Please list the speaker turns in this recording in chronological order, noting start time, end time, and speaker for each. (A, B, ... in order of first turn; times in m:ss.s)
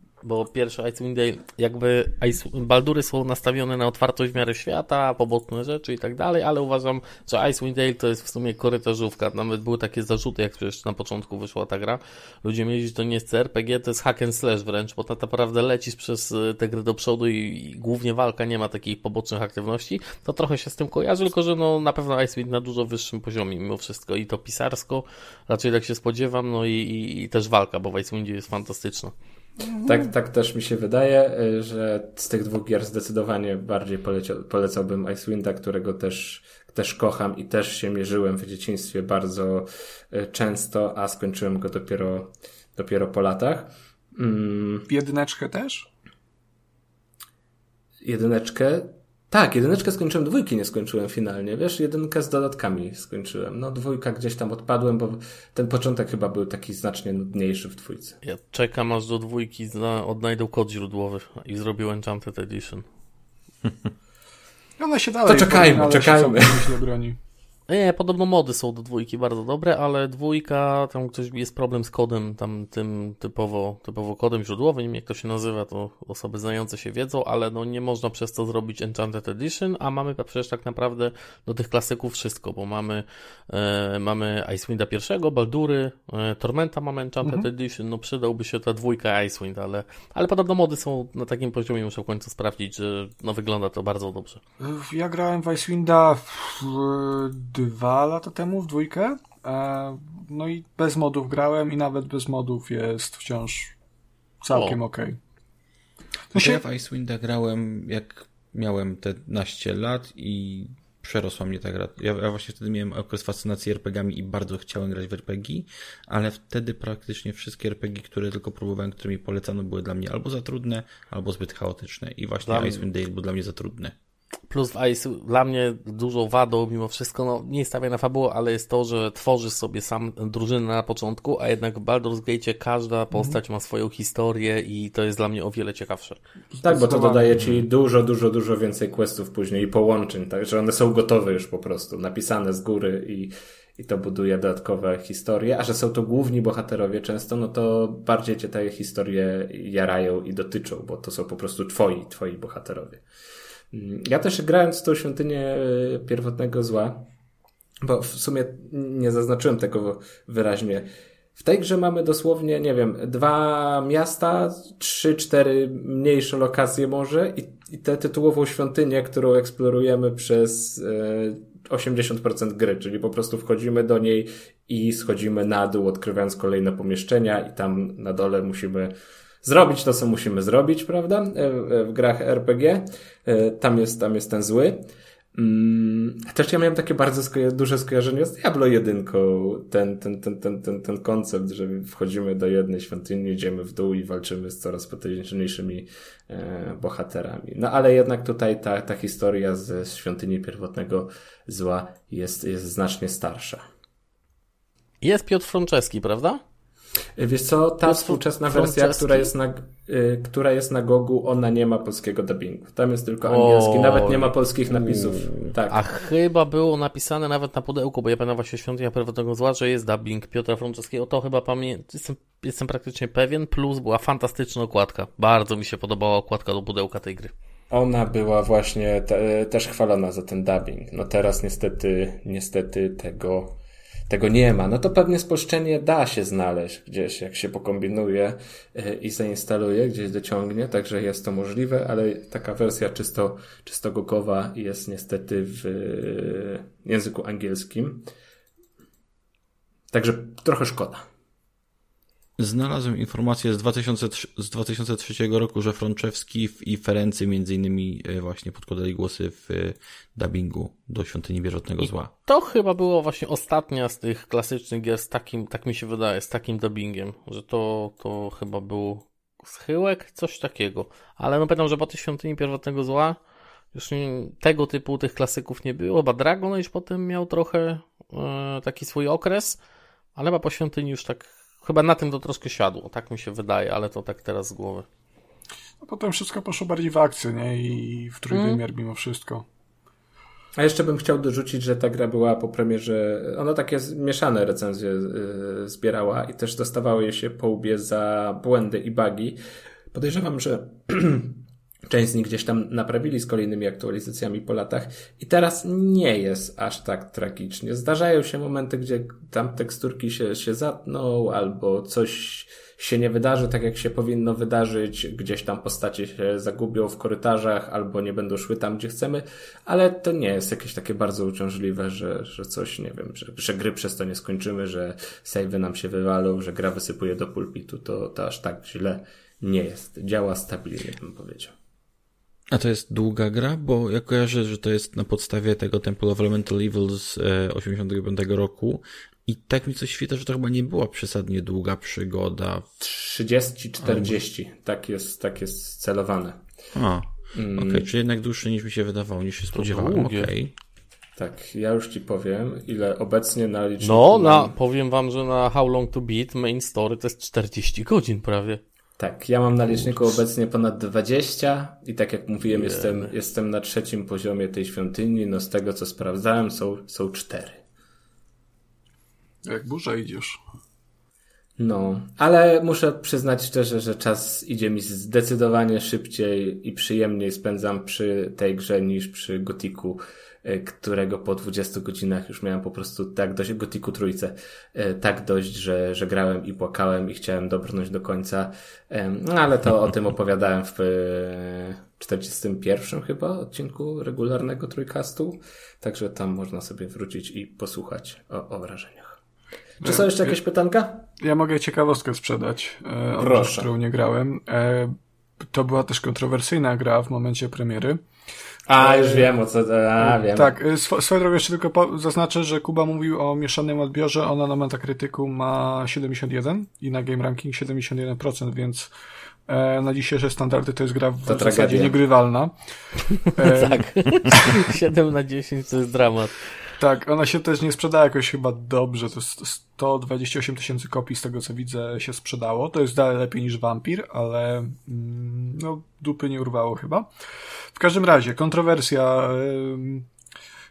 0:00.2-0:29.1 A
0:29.6-0:30.1 B
0:29.8-0:44.9 C
0:44.9-0:45.9 B
0:48.0-0:58.2 C
0:58.2-1:02.8 A
1:04.8-1:07.2 B
1:05.3-1:06.7 C
1:07.7-1:34.4 A
1:27.2-1:27.5 B
1:34.6-1:43.7 B
1:44.4-1:45.2 B
1:44.5-1:44.8 A
1:46.3-1:46.6 B
1:46.3-2:03.9 D
2:02.4-2:02.8 A
2:04.5-2:16.2 A
2:16.5-2:17.4 B
2:16.6-2:33.0 C
2:17.4-2:17.6 D
2:33.7-2:37.1 C
2:37.8-3:23.6 C
3:25.0-3:26.4 A
3:27.2-3:35.8 C
3:27.8-3:29.3 A
3:33.2-3:34.4 A
3:34.7-3:35.5 D
3:35.7-3:47.3 A
3:47.7-3:53.6 C
3:54.1-4:08.1 C
4:09.9-4:11.1 C
4:12.4-4:22.1 D
4:21.8-4:33.2 A
4:33.7-4:39.6 A
4:40.2-4:44.8 A
4:45.8-4:49.4 B
4:48.3-4:48.6 A
4:50.6-4:59.4 C
4:59.9-5:31.6 C
5:32.5-5:42.6 D
5:42.8-5:46.4 C
5:43.8-5:44.1 D
5:46.7-5:50.5 D
5:47.4-5:47.9 C
5:49.5-5:50.3 A
5:51.2-5:54.5 C
5:53.8-5:58.6 A
5:59.0-6:07.6 C
5:59.7-6:00.1 A
6:02.4-6:03.1 A
6:09.4-6:10.4 B
6:11.6-6:39.2 C
6:39.8-6:40.4 B
6:39.8-6:41.1 C
6:41.2-6:48.0 B
6:43.2-6:43.7 C
6:48.7-6:50.5 C
6:48.7-6:49.3 B
6:50.0-6:58.9 B
6:59.5-7:02.5 B
7:01.3-7:02.0 C
7:03.2-7:04.6 B
7:03.4-7:06.5 A
7:06.8-7:17.1 B
7:17.7-7:20.1 B